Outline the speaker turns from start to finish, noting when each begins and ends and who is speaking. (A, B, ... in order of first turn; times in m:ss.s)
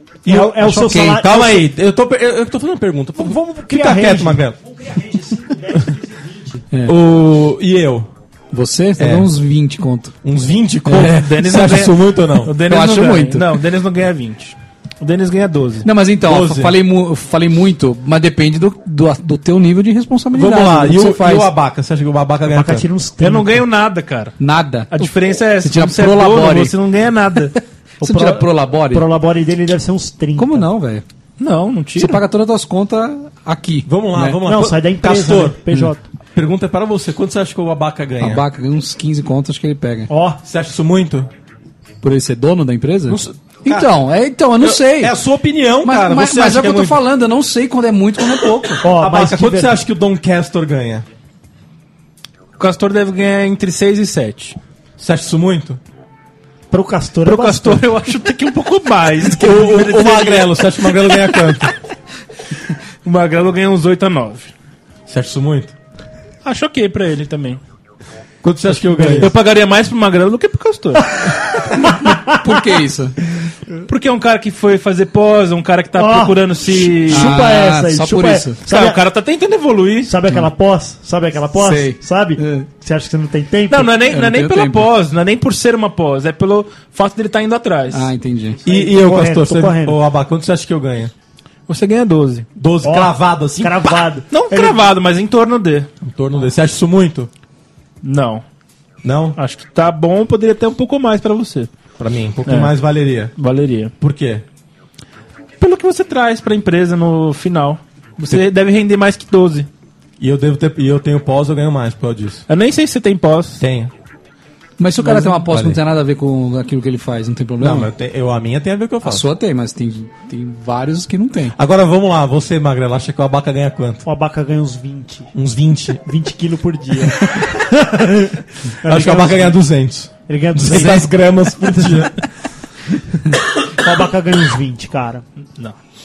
0:00.2-0:01.7 A
0:00.2-0:04.6 B
0:03.2-0:06.6 A
0:06.9-0:08.1 B
0:08.5-0:10.2 C
0:09.0-0:09.3 B
0:10.2-0:12.5 B
0:10.9-0:11.8 C
0:11.0-0:15.9 D
0:12.6-0:13.5 C
0:15.8-0:21.5 C
0:16.2-0:16.8 B
0:20.3-0:22.9 B
0:22.5-0:23.6 A
0:23.2-0:24.4 D
0:24.4-0:26.7 C
0:24.9-0:27.6 D
0:28.0-0:29.1 C
0:28.0-0:30.7 A
0:30.4-0:31.0 C
0:31.4-0:32.2 D
0:32.0-0:34.4 C
0:33.9-0:35.6 B
0:34.4-0:36.0 A
0:36.3-0:38.4 B
0:38.2-0:40.1 C
0:40.1-0:40.4 A
0:40.4-0:41.3 B
0:42.0-0:45.2 C
0:43.1-0:43.9 B
0:44.6-0:47.0 B
0:45.8-0:48.8 C
0:48.8-0:49.8 A
0:48.8-0:51.0 B
0:52.6-0:54.6 D
0:55.0-0:55.8 B
0:56.7-0:57.9 A
0:57.2-1:01.7 D
0:59.3-1:01.7 B
1:03.0-1:04.5 D
1:05.1-1:05.8 B
1:06.4-1:07.6 D
1:08.4-1:09.3 B
1:09.0-1:11.2 D
1:11.2-1:12.6 A
1:11.8-1:13.2 C
1:13.9-1:17.4 D
1:16.0-1:19.0 A
1:17.1-1:18.6 C
1:18.7-1:20.2 D
1:20.1-1:23.9 A
1:21.6-1:22.7 C
1:23.7-1:28.1 D
1:24.0-1:24.9 C
1:27.9-1:28.6 C
1:28.6-1:31.1 B
1:28.7-1:30.0 A
1:31.7-1:32.5 D
1:32.6-1:34.0 B
1:32.8-1:34.8 A
1:34.3-1:35.9 D
1:36.0-1:37.3 B
1:38.0-1:38.4 D
1:39.0-1:39.4 B
1:39.4-1:41.7 D
1:42.0-1:43.3 B
1:42.5-1:42.8 D
1:43.4-1:43.9 D
1:44.0-1:44.4 B
1:45.6-1:49.7 D
1:50.2-1:52.4 B
1:52.5-1:53.6 D
1:53.6-1:53.9 B
1:54.8-1:57.9 C
1:55.0-1:55.8 B
1:57.6-1:59.2 B
1:59.0-2:01.6 C
2:01.6-2:04.1 B
2:04.0-2:05.3 A
2:05.3-2:06.0 B
2:06.1-2:09.6 A
2:08.8-2:12.2 B
2:10.3-2:11.1 A
2:11.7-2:12.0 A
2:13.7-2:15.2 A